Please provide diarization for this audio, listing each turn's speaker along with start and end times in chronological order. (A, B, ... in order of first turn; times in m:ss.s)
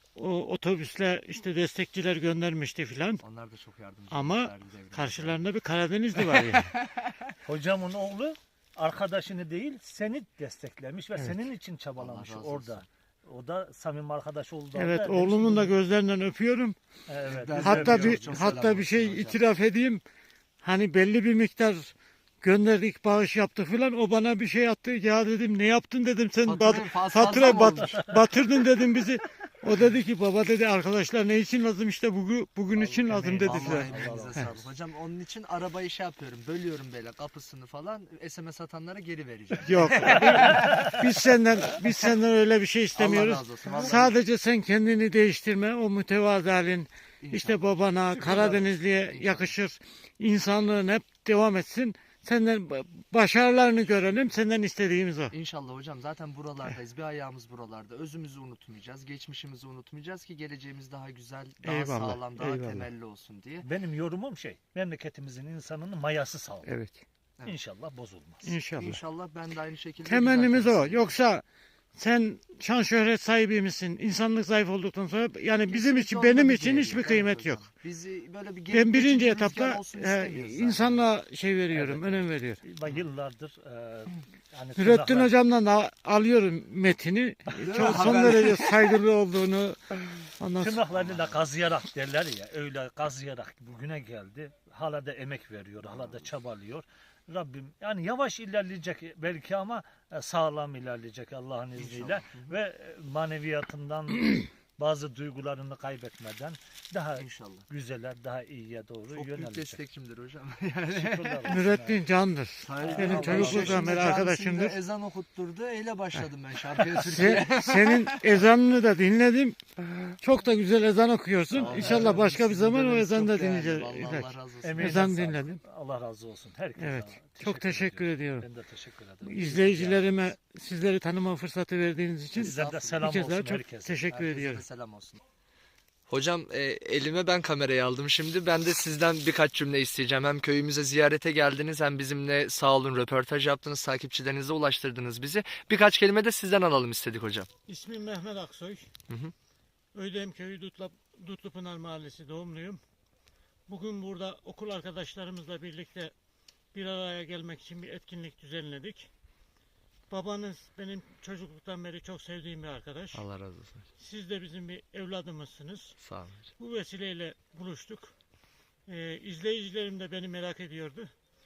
0:00.2-0:03.2 A
0:03.2-0:05.4 B
0:04.1-0:06.7 A
0:06.3-0:07.0 B
0:07.4-0:15.8 C
0:12.0-0:12.9 B
0:14.7-0:16.8 A
0:17.1-0:18.6 C
0:17.2-0:19.4 B
0:17.6-0:20.0 A
0:20.6-0:33.9 A
0:26.4-0:28.1 B
0:32.8-0:34.7 C
0:33.4-0:41.0 B
0:39.6-0:55.4 A
0:40.0-0:40.9 C
0:43.0-0:44.2 B
0:47.2-0:49.6 B
0:55.3-1:03.7 B
1:01.6-1:02.9 A
1:03.6-1:06.7 C
1:06.6-1:07.0 A
1:07.4-1:08.6 C
1:08.4-1:09.0 A
1:08.8-1:11.2 B
1:10.0-1:11.4 A
1:12.0-1:17.6 A
1:15.7-1:21.1 B
1:18.7-1:22.6 A
1:21.7-1:25.4 C
1:24.8-1:30.8 A
1:27.5-1:28.2 C
1:27.6-1:28.7 B
1:30.6-1:49.8 C
1:30.9-1:31.4 B
1:41.8-1:42.6 B
1:47.2-1:47.7 B
1:49.1-1:51.6 B
1:50.9-1:52.0 C
1:51.5-1:54.8 A
1:52.6-1:58.4 B
1:52.8-1:54.0 C
1:56.9-2:05.6 A
2:01.5-2:02.4 C
2:01.5-2:05.0 B
2:04.6-2:10.3 C
2:06.8-2:08.5 A
2:09.2-2:14.6 A
2:12.4-2:13.0 B
2:12.4-2:14.1 C
2:14.1-2:15.2 B
2:16.1-2:27.5 B
2:27.7-2:28.9 A
2:29.9-2:32.8 A
2:33.7-2:36.1 A
2:36.7-2:39.1 A
2:40.1-2:43.2 A
2:43.1-2:43.9 B
2:44.0-2:46.0 A
2:46.0-2:46.5 B
2:46.6-2:48.1 A
2:48.9-2:51.1 A